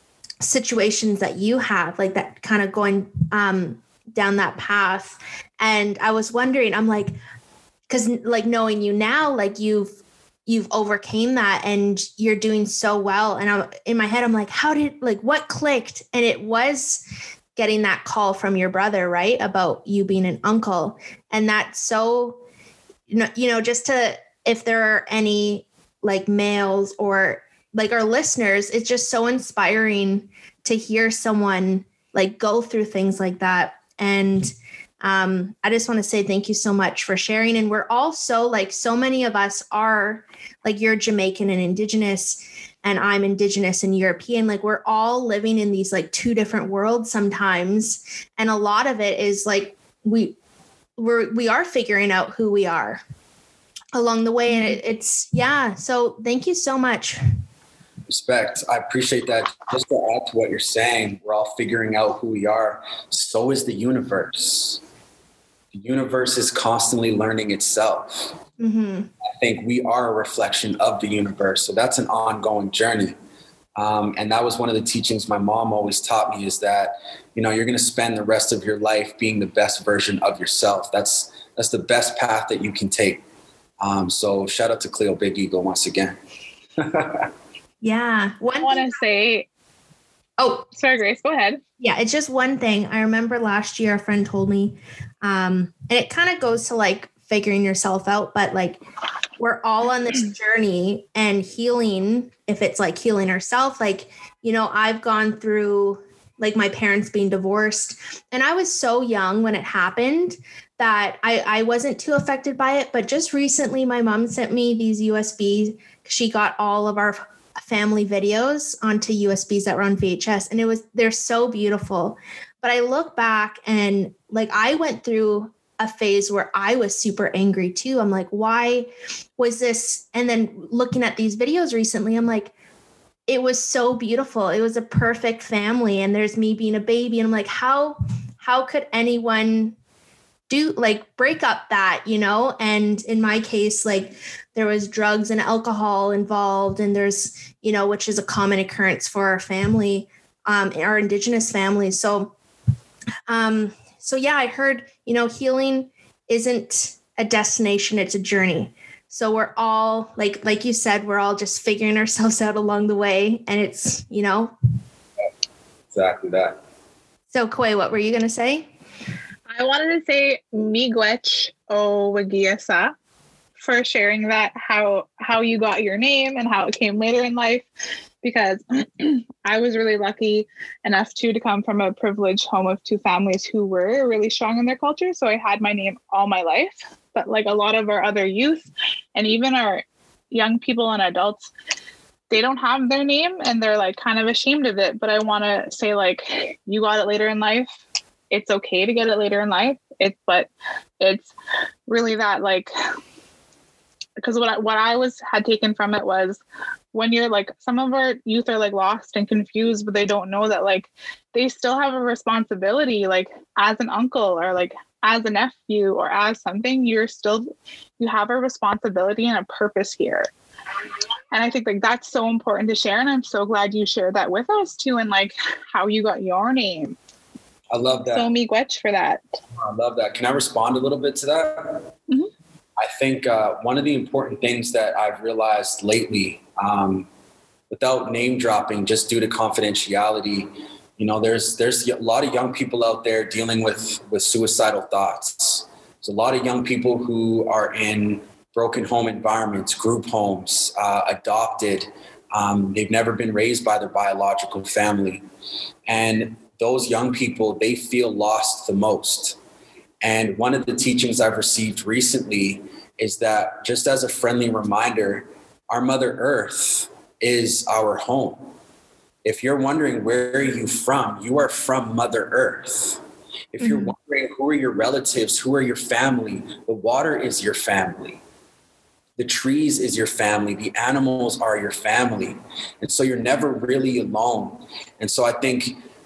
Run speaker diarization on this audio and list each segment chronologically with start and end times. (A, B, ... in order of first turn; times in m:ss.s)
0:00.4-0:07.2 A
0:07.9-0:09.9 A
0:10.5-0:17.0 A
0:17.6-0:22.4 A
0:23.1-0:50.4 A
0:51.0-0:53.0 A
0:53.9-0:57.2 A
0:54.5-0:54.8 B
0:58.1-1:04.8 C
1:05.7-1:08.4 C
1:08.6-1:09.1 A
1:09.2-1:13.2 C
1:13.8-1:23.2 C
1:23.8-1:26.2 C
1:26.8-1:27.3 C
1:27.8-1:29.0 A
1:28.6-1:29.5 B
1:30.4-1:30.7 A
1:30.8-1:31.6 B
1:31.8-1:38.8 A
1:39.4-2:12.5 A
2:13.3-2:19.8 A
2:20.5-2:32.3 A
2:33.3-2:44.5 A
2:45.9-2:46.6 C
2:47.3-2:48.7 A
2:49.5-2:52.9 B
2:53.6-2:57.7 B
2:58.2-3:11.5 B
3:12.3-3:17.7 B
3:18.3-3:20.5 B
3:21.0-3:21.3 B
3:21.9-3:22.7 B
3:24.2-3:26.4 B
3:26.9-3:40.3 B
3:41.3-3:47.0 B
3:47.7-3:48.3 C
3:48.1-3:49.4 B
3:49.6-3:51.8 C
3:52.8-3:57.1 C
3:57.7-4:15.2 C
4:15.9-4:19.4 C
4:20.0-4:28.4 C
4:29.2-4:33.0 C
4:33.5-4:38.2 C
4:33.6-4:33.9 A
4:39.2-4:45.8 C